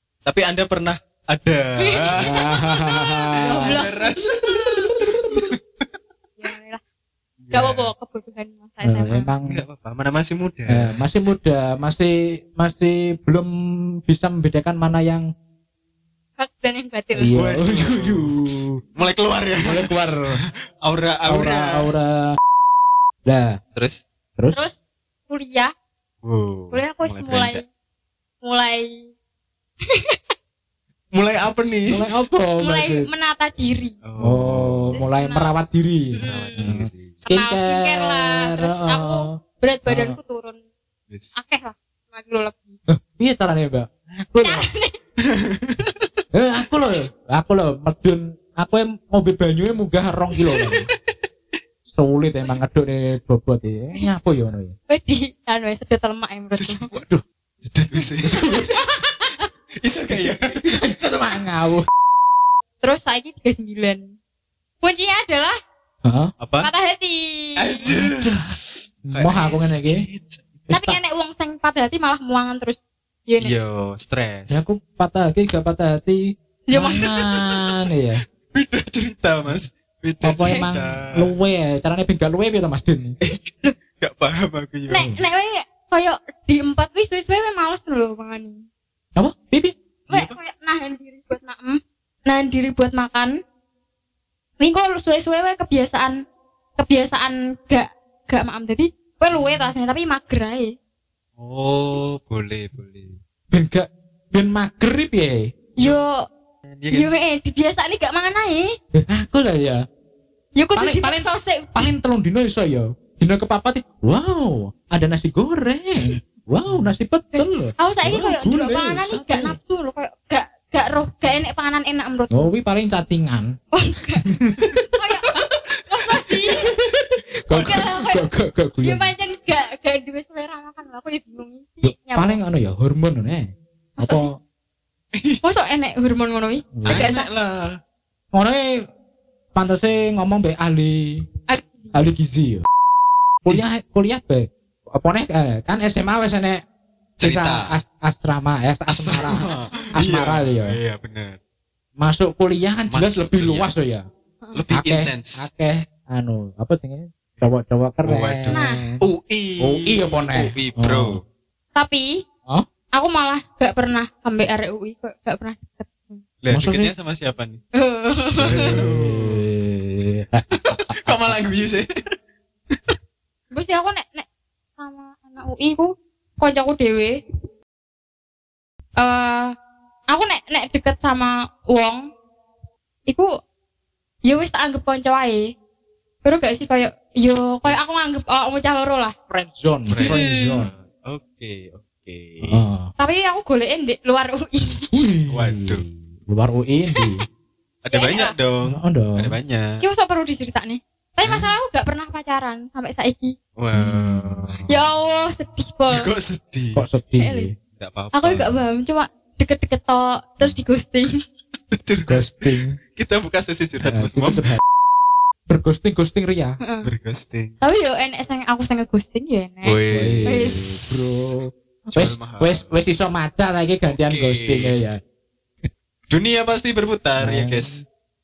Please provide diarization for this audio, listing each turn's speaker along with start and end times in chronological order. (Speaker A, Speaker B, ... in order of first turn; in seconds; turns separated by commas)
Speaker A: 0.2-2.3, Speaker B: 1.8-2.1, Speaker C: 2.2-3.8, Speaker B: 3.3-4.7, Speaker A: 3.4-5.6, Speaker B: 6.4-6.8, Speaker A: 7.4-7.9, Speaker B: 7.5-9.3, Speaker C: 8.8-9.6, Speaker A: 9.5-10.9, Speaker C: 10.7-13.5, Speaker C: 14.1-15.3, Speaker B: 16.4-17.3, Speaker C: 17.2-18.8, Speaker A: 17.3-18.4, Speaker A: 18.9-21.9, Speaker C: 19.6-20.4, Speaker C: 21.3-22.3, Speaker C: 23.2-23.6, Speaker A: 23.7-24.0, Speaker C: 24.4-24.7, Speaker B: 24.5-25.7, Speaker A: 26.2-27.6, Speaker B: 26.7-27.6, Speaker B: 28.4-29.1, Speaker B: 29.9-30.2, Speaker A: 31.1-32.0, Speaker C: 31.9-33.1, Speaker B: 32.6-34.0, Speaker A: 34.0-35.0, Speaker C: 34.2-39.3, Speaker B: 34.9-35.5, Speaker B: 36.1-36.7, Speaker A: 36.2-37.2, Speaker B: 37.2-40.6, Speaker C: 39.9-40.2, Speaker A: 41.1-41.4, Speaker B: 41.3-42.8, Speaker C: 42.9-44.7, Speaker B: 44.4-45.0, Speaker A: 45.2-46.0, Speaker C: 46.3-50.9, Speaker C: 51.9-54.7, Speaker B: 54.9-56.9, Speaker A: 56.5-57.0, Speaker C: 56.9-57.2, Speaker A: 57.6-60.7, Speaker C: 58.2-59.3, Speaker C: 60.1-61.9, Speaker B: 62.8-64.1, Speaker B: 64.8-65.6, Speaker C: 66.0-66.3, Speaker A: 66.4-66.7, Speaker B: 66.6-67.8, Speaker A: 67.6-70.6, Speaker C: 67.8-68.5, Speaker C: 69.1-70.0, Speaker C: 70.7-71.0, Speaker B: 70.7-73.5, Speaker A: 73.4-74.6, Speaker C: 74.5-76.2, Speaker B: 76.7-77.1, Speaker C: 76.7-78.2, Speaker A: 77.0-77.7, Speaker A: 78.5-81.3, Speaker C: 80.2-83.2, Speaker B: 80.4-80.7, Speaker A: 83.2-85.1, Speaker B: 84.9-88.6, Speaker C: 89.2-89.7, Speaker A: 90.1-90.4, Speaker B: 90.1-93.4, Speaker B: 94.6-96.2, Speaker B: 96.8-100.8, Speaker A: 101.4-103.2, Speaker C: 103.5-105.5, Speaker B: 105.8-106.2, Speaker A: 105.8-106.0, Speaker A: 106.7-107.1, Speaker B: 106.9-108.7, Speaker C: 108.9-109.8, Speaker B: 110.5-111.9, Speaker C: 110.7-119.6, Speaker A: 116.7-116.9, Speaker B: 117.3-122.5, Speaker C: 122.3-123.5, Speaker B: 123.7-126.7, Speaker C: 124.2-124.6, Speaker A: 125.4-126.6, Speaker C: 126.5-129.1, Speaker B: 127.5-128.2, Speaker A: 127.5-127.8, Speaker B: 128.8-132.4, Speaker C: 131.8-133.5, Speaker B: 134.0-134.3, Speaker C: 134.0-134.3, Speaker A: 135.1-135.4, Speaker B: 135.4-137.3, Speaker C: 136.8-137.1, Speaker A: 136.8-137.8, Speaker C: 138.3-138.7, Speaker C: 139.5-141.2, Speaker B: 141.5-142.0, Speaker C: 141.9-142.6, Speaker C: 143.4-146.6, Speaker A: 147.2-147.7, Speaker C: 147.2-150.8, Speaker A: 148.9-151.4, Speaker B: 149.2-150.0, Speaker C: 152.0-154.0, Speaker A: 152.9-153.7, Speaker A: 154.5-155.5, Speaker C: 154.7-159.0, Speaker A: 158.0-161.2, Speaker B: 158.5-158.9, Speaker C: 159.6-161.2, Speaker B: 161.7-162.2, Speaker B: 162.9-166.2, Speaker A: 166.4-167.6, Speaker C: 166.5-166.9, Speaker B: 167.7-168.7, Speaker C: 168.4-171.4, Speaker A: 168.4-169.4, Speaker A: 170.5-171.9, Speaker B: 173.5-174.2, Speaker B: 174.8-177.2, Speaker B: 179.0-179.5, Speaker B: 180.1-182.1, Speaker B: 184.2-185.5, Speaker B: 186.2-189.1, Speaker A: 187.7-188.2, Speaker C: 189.3-190.7, Speaker A: 189.9-192.6, Speaker B: 190.0-190.6, Speaker C: 192.4-192.9, Speaker B: 193.0-194.9, Speaker C: 194.9-197.2, Speaker A: 195.3-195.8, Speaker B: 196.9-197.2, Speaker A: 197.8-199.8, Speaker B: 197.9-198.3, Speaker C: 198.6-199.3, Speaker B: 199.8-203.3, Speaker A: 203.6-204.7, Speaker C: 203.7-204.7, Speaker B: 204.6-206.1, Speaker A: 205.9-206.8, Speaker C: 206.8-207.5, Speaker B: 207.2-207.5, Speaker A: 207.7-208.6, Speaker B: 208.1-211.2, Speaker A: 211.7-214.5, Speaker C: 212.1-212.8, Speaker C: 213.8-214.6, Speaker C: 215.5-216.6, Speaker A: 216.8-217.6, Speaker B: 217.6-220.7, Speaker A: 219.6-221.3, Speaker C: 219.9-225.0, Speaker A: 221.9-222.7, Speaker A: 223.9-224.8, Speaker A: 226.1-227.8, Speaker C: 227.2-227.8